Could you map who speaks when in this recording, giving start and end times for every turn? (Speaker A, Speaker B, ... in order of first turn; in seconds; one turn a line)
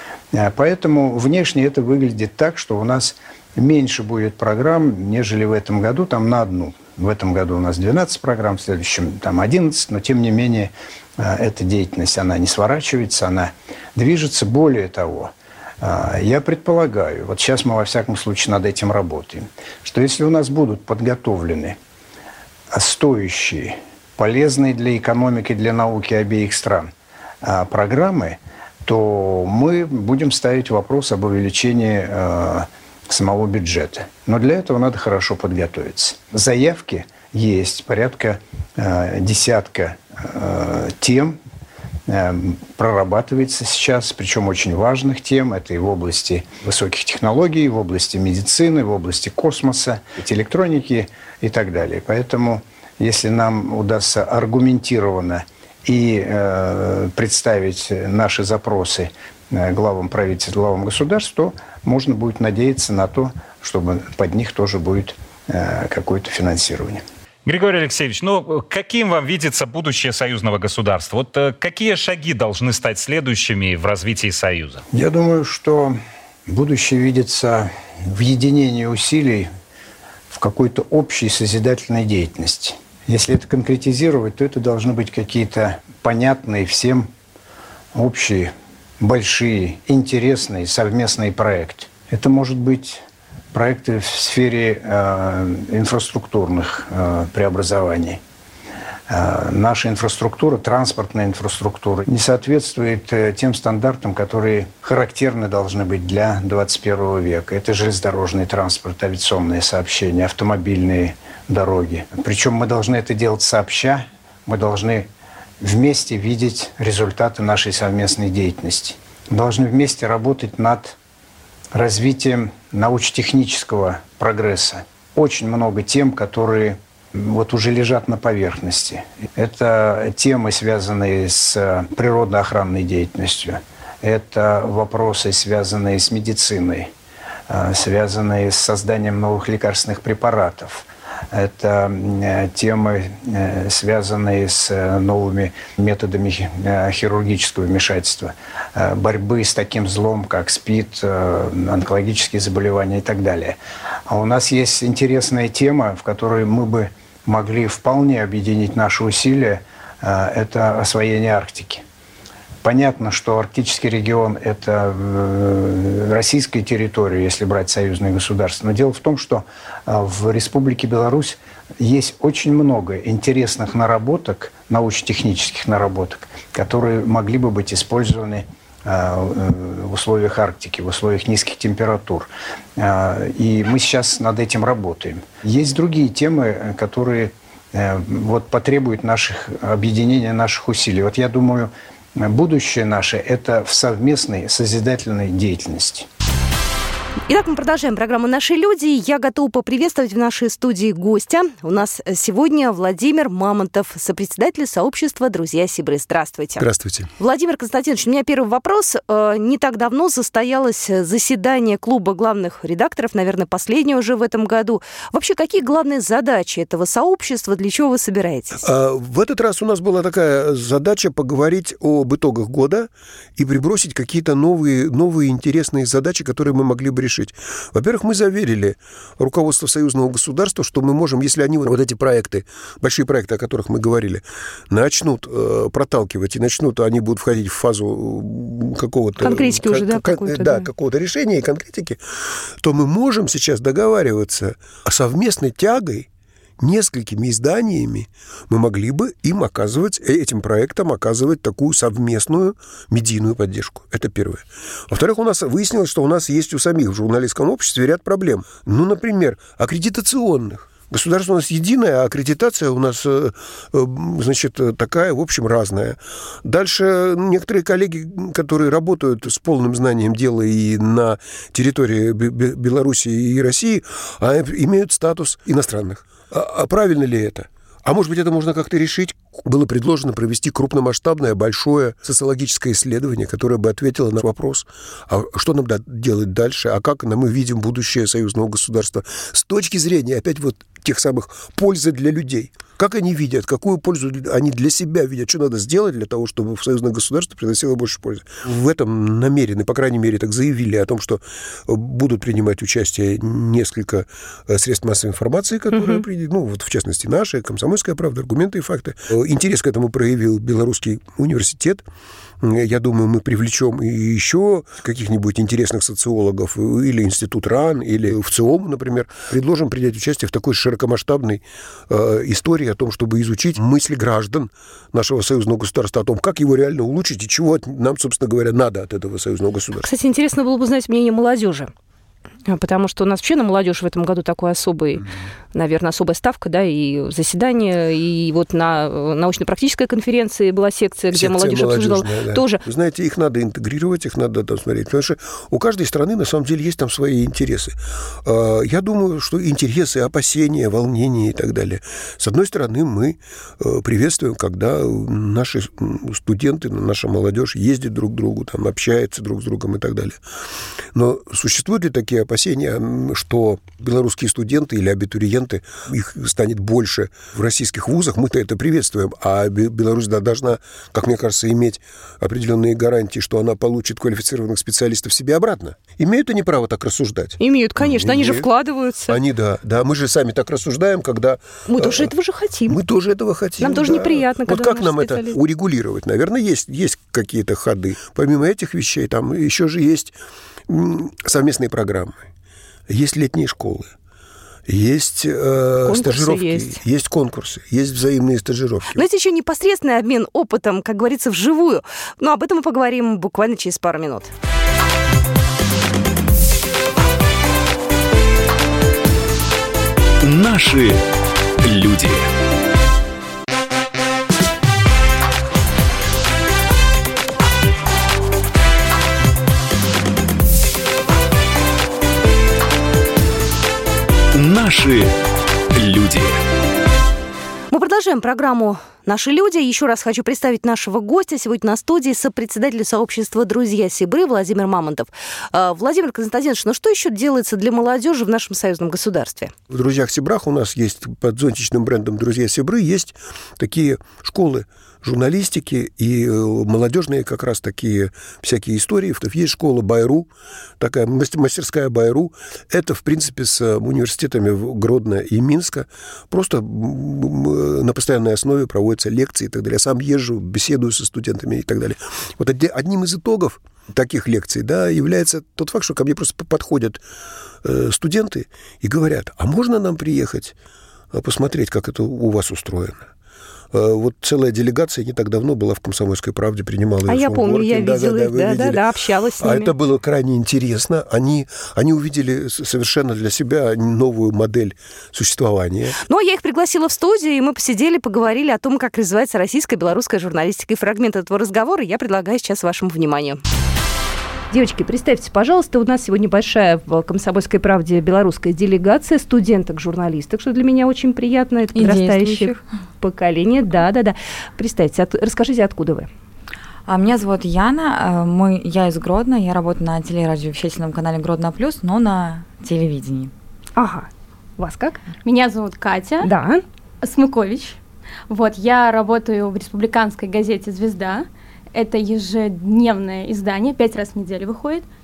Speaker A: 0.3-21.8
Speaker A: 22.7-26.9
Speaker A: 27.4-41.4
Speaker A: 42.1-67.0
Speaker B: 67.5-74.8
Speaker A: 74.9-79.5
Speaker A: 80.3-87.1
Speaker A: 87.9-93.0
Speaker A: 93.5-98.2
Speaker A: 99.1-115.1
Speaker A: 115.6-121.0
Speaker A: 121.7-136.9
Speaker A: 137.5-161.8
Speaker A: 162.6-196.1
Speaker C: 197.3-206.7
Speaker D: 206.6-207.1
Speaker C: 207.2-218.6
Speaker D: 218.6-242.0
Speaker C: 239.2-240.7
Speaker D: 242.6-246.1
Speaker D: 246.6-311.8
Speaker C: 305.7-306.0
Speaker D: 312.4-329.9
Speaker C: 329.8-331.7
Speaker C: 332.5-342.6
Speaker D: 341.1-360.2
Speaker D: 360.9-378.5
Speaker C: 377.4-379.2
Speaker D: 379.1-382.1
Speaker C: 381.7-382.8
Speaker D: 382.7-390.1
Speaker C: 383.6-385.4
Speaker D: 390.7-392.2
Speaker D: 392.9-393.9
Speaker D: 394.7-399.1
Speaker C: 395.9-396.8
Speaker C: 399.0-404.3
Speaker E: 410.2-411.0
Speaker E: 411.6-412.3
Speaker E: 424.3-425.2
Speaker E: 425.7-426.4
Speaker C: 427.7-439.5
Speaker D: 439.7-450.3
Speaker D: 450.8-467.0
Speaker D: 467.6-470.5
Speaker D: 471.1-473.1
Speaker D: 473.7-478.9
Speaker C: 477.1-479.7
Speaker D: 479.4-486.0
Speaker C: 486.1-493.4
Speaker C: 494.5-506.1
Speaker F: 501.7-502.6
Speaker F: 506.9-513.3
Speaker C: 513.8-515.0
Speaker G: 515.2-516.3
Speaker C: 516.2-516.6
Speaker G: 517.0-524.9